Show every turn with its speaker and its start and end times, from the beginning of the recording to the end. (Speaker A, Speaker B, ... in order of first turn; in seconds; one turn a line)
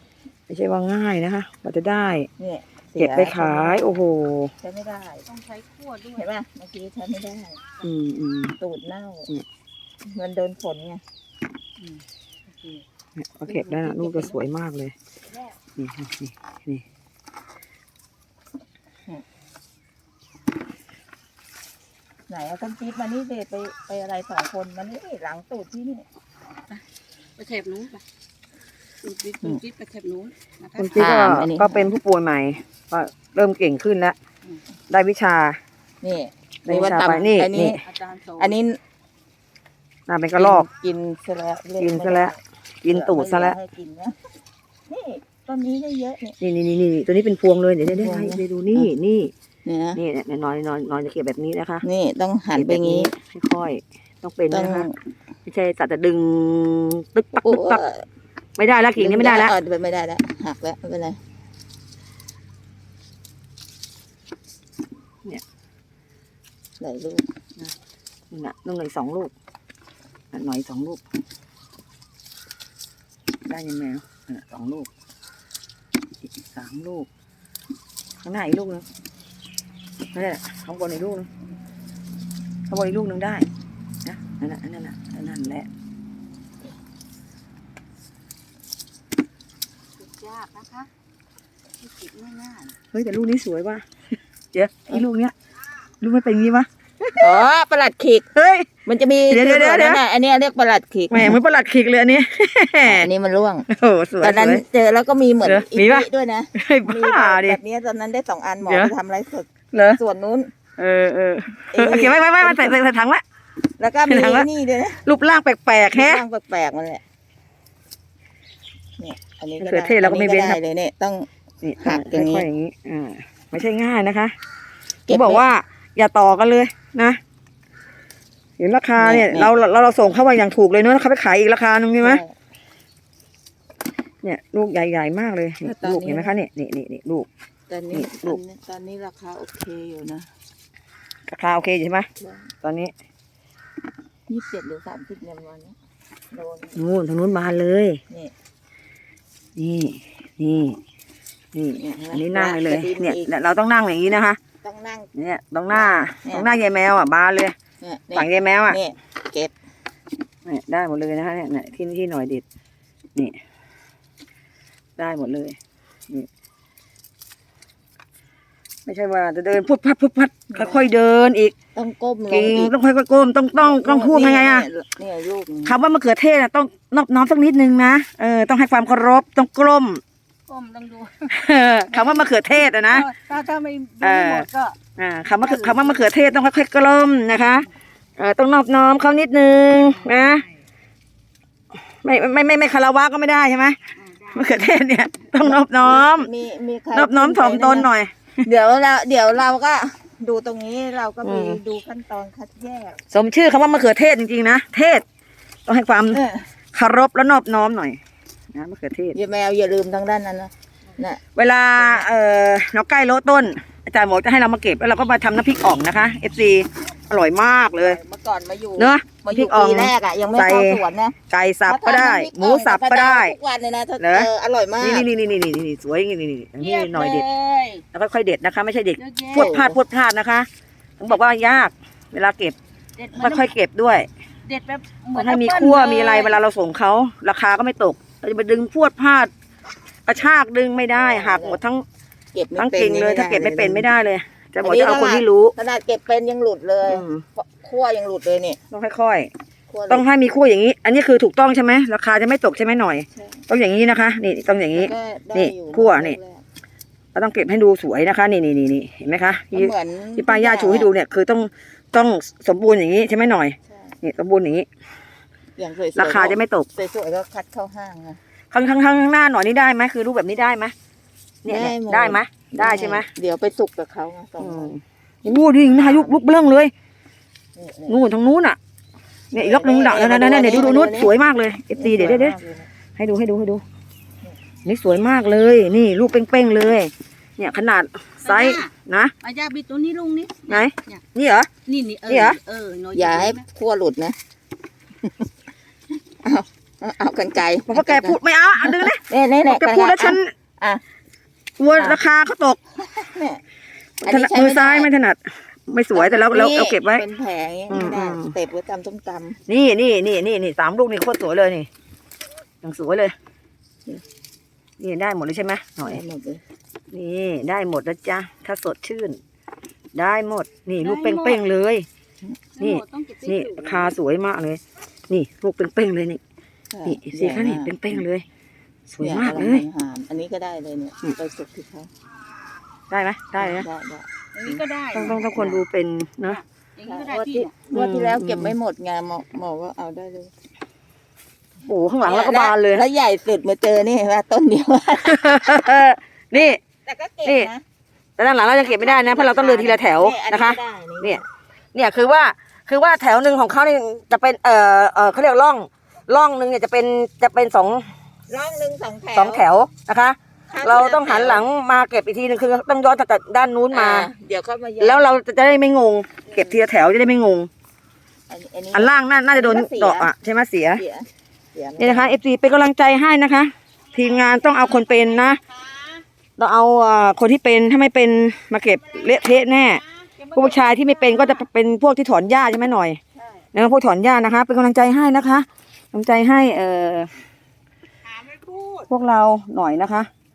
Speaker A: 0.5-2.3
Speaker B: 2.4-4.0
Speaker A: 3.0-4.5
Speaker B: 4.6-5.3
Speaker C: 5.3-6.2
Speaker B: 6.1-7.6
Speaker A: 7.8-8.5
Speaker B: 8.6-9.3
Speaker B: 10.1-11.0
Speaker A: 13.2-14.9
Speaker B: 13.5-14.4
Speaker A: 15.8-16.8
Speaker B: 22.3-26.1
Speaker C: 27.4-28.0
Speaker C: 29.0-31.2
Speaker A: 30.8-34.2
Speaker B: 30.9-31.9
Speaker A: 34.9-35.6
Speaker B: 36.0-37.8
Speaker A: 36.7-37.8
Speaker C: 37.8-38.5
Speaker B: 38.4-38.8
Speaker A: 40.1-40.7
Speaker B: 40.4-42.4
Speaker A: 41.8-43.6
Speaker B: 42.9-44.2
Speaker B: 44.9-46.4
Speaker A: 46.4-49.3
Speaker B: 47.8-48.9
Speaker B: 49.7-50.0
Speaker A: 50.0-51.8
Speaker B: 51.8-53.1
Speaker A: 52.5-54.9
Speaker B: 54.5-54.9
Speaker A: 55.5-57.8
Speaker B: 57.4-58.0
Speaker A: 58.6-59.5
Speaker B: 59.0-61.2
Speaker B: 66.8-67.3
Speaker A: 68.3-69.3
Speaker A: 70.3-71.0
Speaker A: 73.5-74.9
Speaker A: 76.4-77.1
Speaker A: 78.2-78.8
Speaker A: 80.1-81.3
Speaker A: 82.7-83.5
Speaker A: 84.1-85.7
Speaker B: 90.0-90.9
Speaker B: 91.8-92.7
Speaker A: 92.9-93.8
Speaker A: 94.5-95.3
Speaker A: 96.0-97.4
Speaker B: 97.2-98.3
Speaker A: 98.4-98.7
Speaker B: 98.8-101.4
Speaker A: 99.3-100.0
Speaker A: 101.1-103.1
Speaker B: 102.8-103.7
Speaker A: 103.7-104.6
Speaker B: 104.2-110.5
Speaker A: 105.5-107.6
Speaker A: 108.6-108.9
Speaker A: 109.7-110.0
Speaker A: 110.8-113.2
Speaker B: 111.7-112.8
Speaker B: 113.8-115.0
Speaker A: 114.1-114.5
Speaker A: 115.0-116.2
Speaker B: 115.9-117.0
Speaker B: 119.0-121.3
Speaker A: 119.6-120.6
Speaker A: 121.6-124.3
Speaker B: 121.8-122.5
Speaker B: 125.1-125.4
Speaker A: 125.1-127.2
Speaker A: 128.6-132.2
Speaker B: 129.0-129.5
Speaker B: 132.0-132.3
Speaker A: 134.2-137.3
Speaker B: 135.6-136.4
Speaker B: 137.7-140.3
Speaker A: 137.9-138.4
Speaker A: 141.3-142.1
Speaker B: 142.2-142.4
Speaker A: 142.6-142.9
Speaker B: 144.3-145.8
Speaker B: 146.3-146.8
Speaker A: 146.8-148.0
Speaker A: 149.6-150.8
Speaker A: 151.5-154.4
Speaker B: 151.8-153.3
Speaker B: 154.6-155.1
Speaker A: 155.2-157.6
Speaker B: 155.7-156.5
Speaker B: 157.8-159.5
Speaker A: 158.2-158.8
Speaker A: 160.4-162.4
Speaker A: 165.0-165.6
Speaker A: 168.9-171.6
Speaker B: 170.5-170.9
Speaker B: 171.8-172.7
Speaker A: 172.3-174.7
Speaker B: 173.6-175.8
Speaker A: 175.7-180.0
Speaker C: 180.5-181.3
Speaker A: 181.3-183.1
Speaker C: 182.9-184.8
Speaker A: 184.0-190.4
Speaker C: 185.5-186.0
Speaker A: 192.0-196.3
Speaker C: 194.0-194.5
Speaker B: 195.4-197.9
Speaker A: 196.9-198.4
Speaker B: 198.4-203.0
Speaker A: 201.2-201.6
Speaker A: 203.1-205.0
Speaker A: 205.7-206.2
Speaker B: 206.1-206.5
Speaker A: 206.7-208.0
Speaker A: 208.5-209.2
Speaker B: 209.1-211.2
Speaker A: 211.3-218.0
Speaker B: 211.8-212.1
Speaker B: 217.8-221.2
Speaker A: 218.8-223.4
Speaker B: 221.7-225.1
Speaker A: 224.0-224.3
Speaker A: 224.8-227.2
Speaker B: 226.6-227.8
Speaker A: 227.9-230.5
Speaker C: 229.0-229.5
Speaker B: 229.3-229.8
Speaker A: 231.0-232.6
Speaker C: 233.0-233.5
Speaker A: 233.2-234.1
Speaker C: 234.4-236.4
Speaker A: 235.2-239.3
Speaker A: 240.1-241.8
Speaker B: 240.9-241.6
Speaker B: 242.3-243.9
Speaker A: 242.6-245.5
Speaker B: 244.6-248.6
Speaker A: 246.9-247.2
Speaker A: 248.7-249.3
Speaker B: 249.7-250.1
Speaker A: 249.9-256.2
Speaker B: 253.2-253.4
Speaker B: 254.7-256.4
Speaker A: 257.1-264.7
Speaker B: 259.5-260.9
Speaker B: 263.7-264.0
Speaker B: 265.6-268.2
Speaker A: 266.0-266.7
Speaker A: 268.5-270.7
Speaker A: 271.4-273.1
Speaker B: 271.5-274.7
Speaker A: 274.4-276.7
Speaker B: 275.7-276.2
Speaker B: 277.6-278.0
Speaker A: 277.9-278.6
Speaker A: 279.3-282.4
Speaker B: 279.4-281.1
Speaker B: 281.7-282.7
Speaker A: 283.0-283.6
Speaker A: 284.6-289.1
Speaker C: 288.2-288.7
Speaker C: 289.2-291.0
Speaker A: 290.5-291.5
Speaker C: 291.6-293.4
Speaker A: 292.1-292.4
Speaker B: 292.9-294.2
Speaker B: 296.2-300.8
Speaker A: 297.7-300.3
Speaker A: 301.6-302.6
Speaker B: 301.7-302.0
Speaker B: 302.8-303.4
Speaker A: 304.0-307.0
Speaker B: 304.0-304.9
Speaker B: 305.9-309.4
Speaker A: 307.7-308.3
Speaker A: 309.5-311.7
Speaker A: 312.6-313.1
Speaker A: 314.8-316.0
Speaker B: 315.8-316.4
Speaker A: 316.9-319.2
Speaker A: 319.9-321.9
Speaker C: 320.8-321.4
Speaker C: 322.6-323.9
Speaker A: 322.6-326.2
Speaker B: 326.7-328.0
Speaker A: 326.9-328.3
Speaker A: 328.9-329.6
Speaker B: 329.0-331.9
Speaker A: 332.9-333.7
Speaker B: 333.4-334.6
Speaker C: 334.3-335.2
Speaker A: 334.9-336.4
Speaker B: 335.2-335.6
Speaker C: 336.3-337.6
Speaker B: 336.9-340.3
Speaker A: 337.7-338.5
Speaker A: 341.6-342.8
Speaker B: 342.0-345.7
Speaker A: 345.0-346.6
Speaker B: 346.3-347.6
Speaker A: 347.2-347.5
Speaker A: 348.2-351.2
Speaker B: 348.6-351.3
Speaker A: 351.8-357.9
Speaker B: 358.3-359.5
Speaker A: 359.1-364.1
Speaker B: 360.5-361.5
Speaker B: 363.7-365.1
Speaker A: 364.8-367.5
Speaker B: 366.3-366.6
Speaker B: 368.3-370.1
Speaker A: 368.7-370.8
Speaker B: 370.8-372.2
Speaker A: 371.8-375.4
Speaker A: 376.4-383.0
Speaker B: 380.2-380.9
Speaker B: 383.1-383.4
Speaker A: 383.5-387.1
Speaker C: 388.3-388.9
Speaker A: 388.9-390.1